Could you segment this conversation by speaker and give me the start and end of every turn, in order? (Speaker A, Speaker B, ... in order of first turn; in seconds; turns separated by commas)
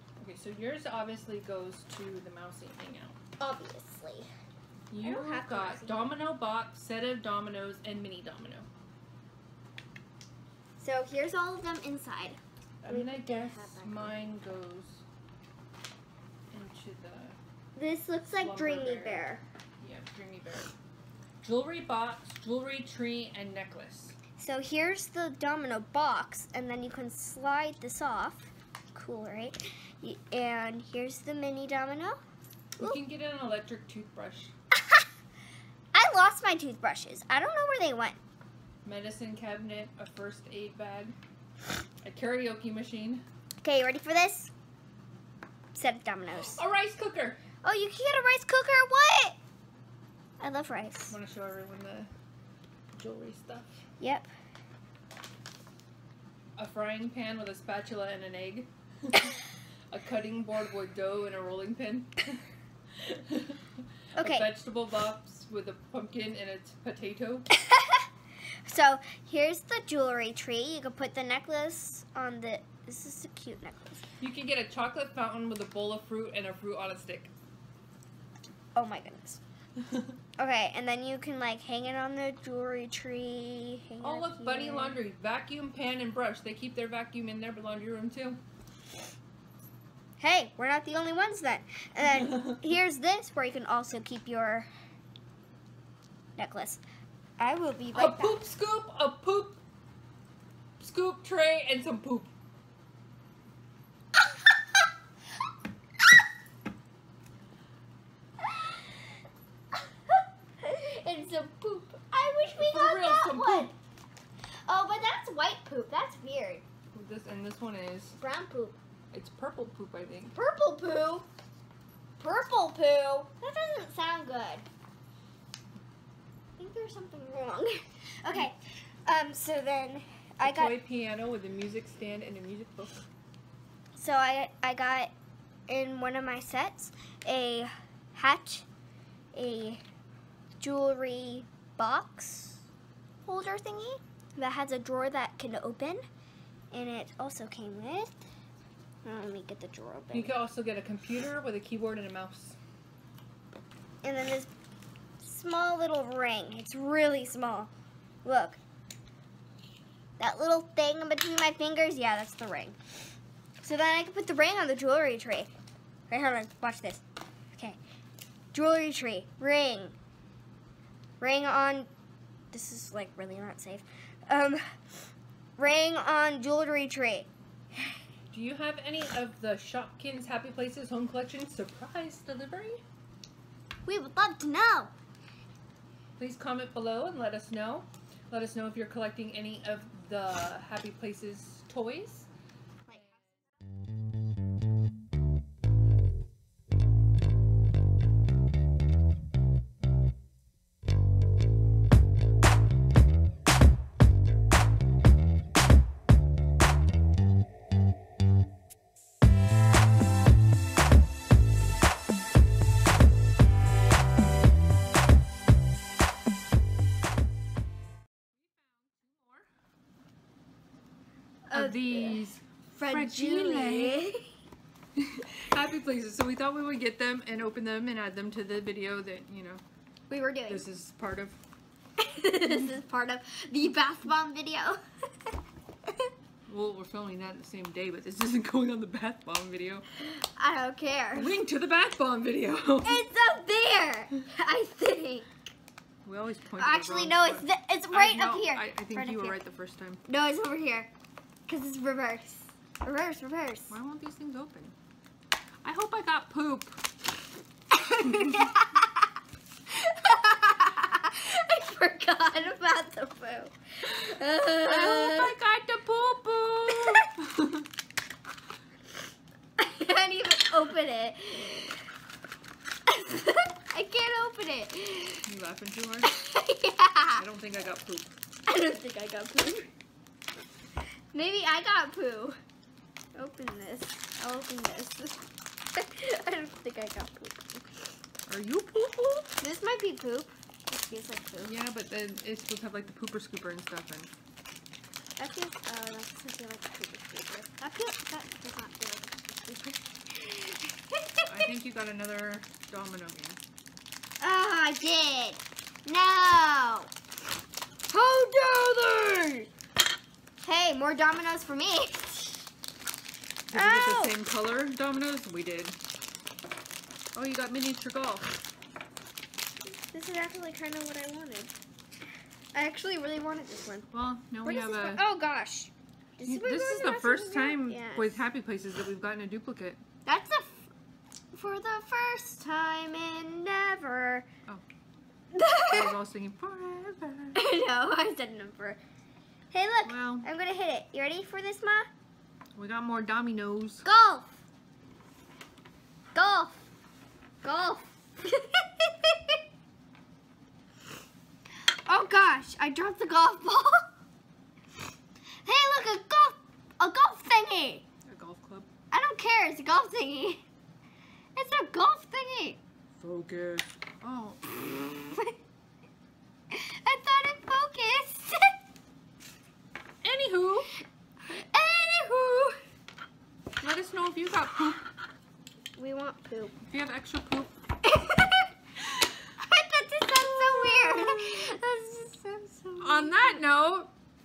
Speaker A: 0.2-3.2, Speaker B: 3.4-4.3, Speaker A: 4.9-8.7, Speaker B: 5.0-6.1, Speaker B: 10.8-14.1, Speaker A: 12.8-15.0, Speaker A: 16.5-17.4, Speaker B: 17.8-19.4, Speaker A: 18.3-19.3, Speaker A: 19.8-20.7, Speaker A: 21.4-24.2, Speaker B: 24.4-32.2, Speaker A: 32.8-34.5, Speaker B: 35.9-38.2, Speaker A: 38.8-41.1, Speaker A: 42.0-43.2, Speaker B: 43.6-44.5, Speaker B: 45.7-46.6, Speaker A: 46.3-47.4, Speaker B: 47.6-49.4, Speaker B: 50.4-51.1, Speaker A: 51.1-52.1, Speaker A: 52.9-53.8, Speaker B: 54.0-54.3, Speaker A: 56.6-62.4, Speaker A: 62.9-67.5, Speaker B: 64.2-64.5, Speaker B: 67.5-68.1, Speaker B: 68.7-74.0, Speaker A: 74.2-77.3, Speaker B: 78.7-79.4, Speaker A: 79.8-80.1, Speaker B: 80.4-85.0, Speaker A: 84.0-88.4, Speaker B: 90.2-94.7, Speaker A: 92.1-92.5, Speaker B: 96.4-96.8, Speaker B: 97.4-98.4, Speaker A: 97.9-99.6, Speaker A: 100.8-102.3, Speaker B: 108.5-108.8, Speaker B: 110.1-113.7, Speaker A: 112.5-113.7, Speaker B: 114.7-116.6, Speaker A: 116.9-118.2, Speaker B: 118.2-118.8, Speaker A: 119.1-120.3, Speaker B: 120.3-121.3, Speaker B: 122.2-124.7, Speaker B: 126.6-130.8, Speaker A: 130.4-133.1, Speaker B: 133.9-135.1, Speaker B: 135.7-138.7, Speaker B: 139.3-139.8, Speaker B: 140.6-142.6, Speaker B: 143.2-146.0, Speaker B: 146.7-148.2, Speaker B: 149.0-150.3, Speaker A: 150.1-152.6, Speaker B: 154.0-154.5, Speaker B: 155.2-157.7, Speaker B: 158.2-158.6, Speaker B: 160.2-162.8, Speaker B: 163.6-165.5, Speaker B: 166.1-167.8, Speaker B: 168.5-169.9, Speaker B: 171.2-171.9, Speaker B: 172.5-177.3, Speaker A: 178.3-182.8, Speaker B: 183.8-184.9, Speaker A: 186.2-192.3, Speaker B: 192.9-193.4, Speaker A: 218.3-219.5, Speaker B: 221.5-224.3, Speaker A: 221.5-224.1, Speaker A: 224.9-229.6, Speaker B: 230.1-230.6, Speaker A: 230.5-231.4, Speaker B: 232.0-234.8, Speaker A: 236.5-239.9, Speaker B: 240.0-241.4, Speaker A: 241.1-243.1, Speaker B: 242.8-245.3, Speaker A: 246.0-250.0, Speaker B: 246.6-249.4, Speaker B: 250.1-250.9, Speaker B: 251.5-253.7, Speaker A: 253.7-254.8, Speaker A: 255.6-256.8, Speaker B: 257.7-258.9, Speaker A: 258.1-258.5, Speaker B: 259.7-265.3, Speaker A: 264.6-267.7, Speaker B: 269.6-271.8, Speaker B: 272.9-275.2, Speaker A: 275.2-276.1, Speaker B: 276.1-277.2, Speaker A: 277.1-278.1, Speaker B: 278.5-279.7, Speaker B: 281.1-282.4, Speaker B: 283.1-287.9, Speaker A: 288.3-289.3, Speaker B: 289.4-291.5, Speaker A: 291.4-294.1, Speaker B: 295.2-301.5, Speaker A: 301.2-303.4, Speaker B: 304.2-306.9, Speaker B: 307.9-309.5, Speaker B: 310.4-312.5, Speaker A: 313.5-315.8, Speaker B: 313.5-314.1, Speaker A: 317.1-318.3, Speaker B: 319.6-321.5, Speaker B: 322.5-323.9, Speaker A: 323.9-325.1, Speaker B: 324.4-328.2, Speaker A: 326.2-329.8, Speaker B: 330.0-330.7, Speaker B: 331.3-334.3, Speaker B: 335.3-336.0, Speaker A: 335.7-337.4, Speaker B: 337.3-338.8, Speaker B: 339.5-341.9, Speaker A: 339.8-340.3, Speaker A: 342.6-343.9, Speaker B: 343.8-344.3, Speaker B: 346.1-346.6, Speaker B: 347.4-349.4, Speaker B: 351.8-353.8, Speaker B: 355.4-357.8, Speaker A: 358.1-358.7, Speaker B: 358.9-360.4, Speaker B: 361.4-362.6, Speaker A: 363.0-364.7, Speaker B: 364.8-365.3, Speaker B: 366.5-368.5, Speaker A: 370.0-370.7, Speaker B: 371.2-372.6, Speaker A: 373.6-374.9, Speaker B: 375.8-376.6, Speaker A: 376.6-377.5, Speaker B: 377.8-378.5, Speaker B: 379.4-383.4, Speaker A: 380.3-381.2, Speaker A: 382.8-383.9